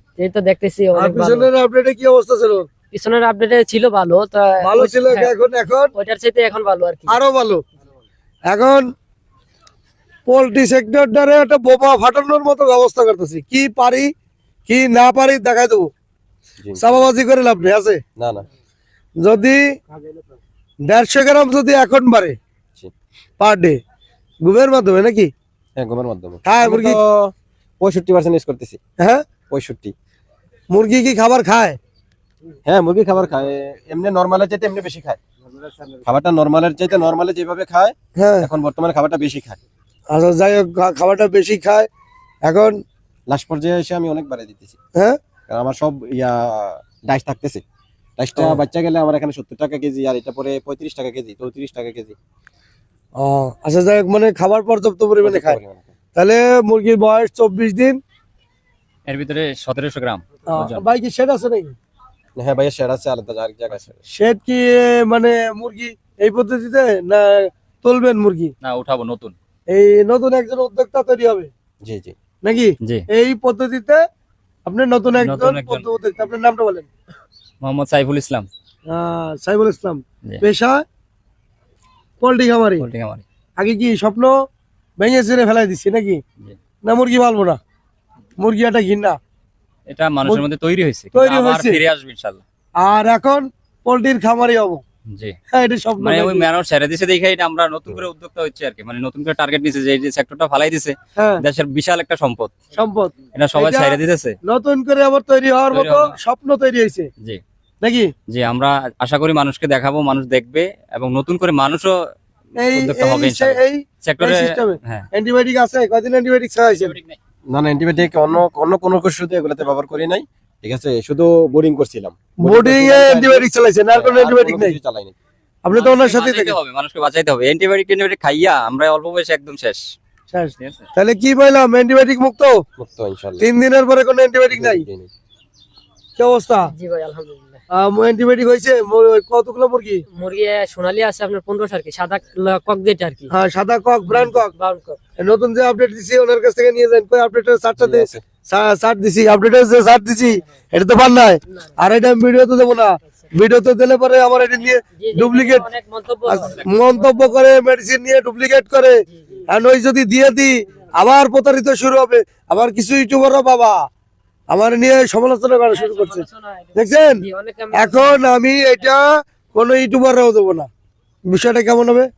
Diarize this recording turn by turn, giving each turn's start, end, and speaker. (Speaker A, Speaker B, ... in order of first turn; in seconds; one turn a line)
Speaker A: 0.2-1.5
Speaker B: 0.9-2.7
Speaker A: 2.9-5.3
Speaker B: 4.6-5.9
Speaker A: 5.9-7.2
Speaker B: 7.1-7.6
Speaker B: 8.5-8.9
Speaker B: 10.3-14.1
Speaker B: 14.7-15.9
Speaker C: 16.6-17.0
Speaker B: 16.8-18.0
Speaker C: 18.2-18.4
Speaker B: 19.2-19.6
Speaker B: 20.9-22.4
Speaker B: 23.4-23.8
Speaker B: 24.4-25.3
Speaker C: 25.8-28.8
Speaker B: 26.4-27.0
Speaker B: 29.0-29.2
Speaker C: 29.5-29.9
Speaker B: 30.7-31.8
Speaker C: 32.7-35.2
Speaker C: 36.0-39.6
Speaker B: 38.2-38.5
Speaker B: 40.1-41.9
Speaker B: 42.4-42.8
Speaker C: 43.3-44.8
Speaker C: 45.5-47.6
Speaker C: 48.2-52.2
Speaker B: 53.1-55.6
Speaker C: 55.2-55.9
Speaker B: 56.1-58.0
Speaker D: 59.1-60.8
Speaker B: 60.5-61.7
Speaker C: 62.4-64.0
Speaker B: 64.1-68.5
Speaker D: 68.6-69.3
Speaker B: 69.7-71.5
Speaker C: 71.8-72.1
Speaker B: 72.4-74.0
Speaker D: 72.8-73.0
Speaker B: 74.7-76.9
Speaker D: 75.2-75.9
Speaker D: 77.6-78.5
Speaker B: 78.9-80.8
Speaker B: 82.2-82.8
Speaker D: 82.8-83.2
Speaker B: 83.6-84.3
Speaker B: 85.0-86.2
Speaker B: 86.8-87.6
Speaker B: 88.4-89.2
Speaker D: 89.9-92.4
Speaker B: 91.1-91.8
Speaker B: 92.8-94.8
Speaker D: 95.1-95.3
Speaker B: 95.5-96.4
Speaker D: 96.0-102.5
Speaker B: 101.2-101.4
Speaker B: 102.8-107.1
Speaker D: 103.3-104.4
Speaker D: 105.7-106.2
Speaker B: 107.8-108.1
Speaker D: 108.3-111.9
Speaker B: 112.6-117.0
Speaker D: 112.7-115.1
Speaker D: 116.7-117.2
Speaker C: 117.5-125.2
Speaker B: 122.4-124.8
Speaker B: 125.6-126.6
Speaker D: 125.7-129.8
Speaker B: 130.3-132.6
Speaker D: 130.6-130.9
Speaker C: 132.8-133.4
Speaker B: 133.4-134.8
Speaker C: 134.5-135.1
Speaker B: 136.2-136.7
Speaker A: 136.7-137.6
Speaker B: 137.7-140.0
Speaker A: 140.2-143.3
Speaker B: 143.3-144.5
Speaker A: 144.1-145.0
Speaker B: 145.2-155.7
Speaker C: 147.8-148.2
Speaker A: 155.0-157.4
Speaker B: 156.2-163.8
Speaker A: 159.1-159.4
Speaker B: 164.5-170.7
Speaker A: 165.7-168.9
Speaker B: 171.3-172.1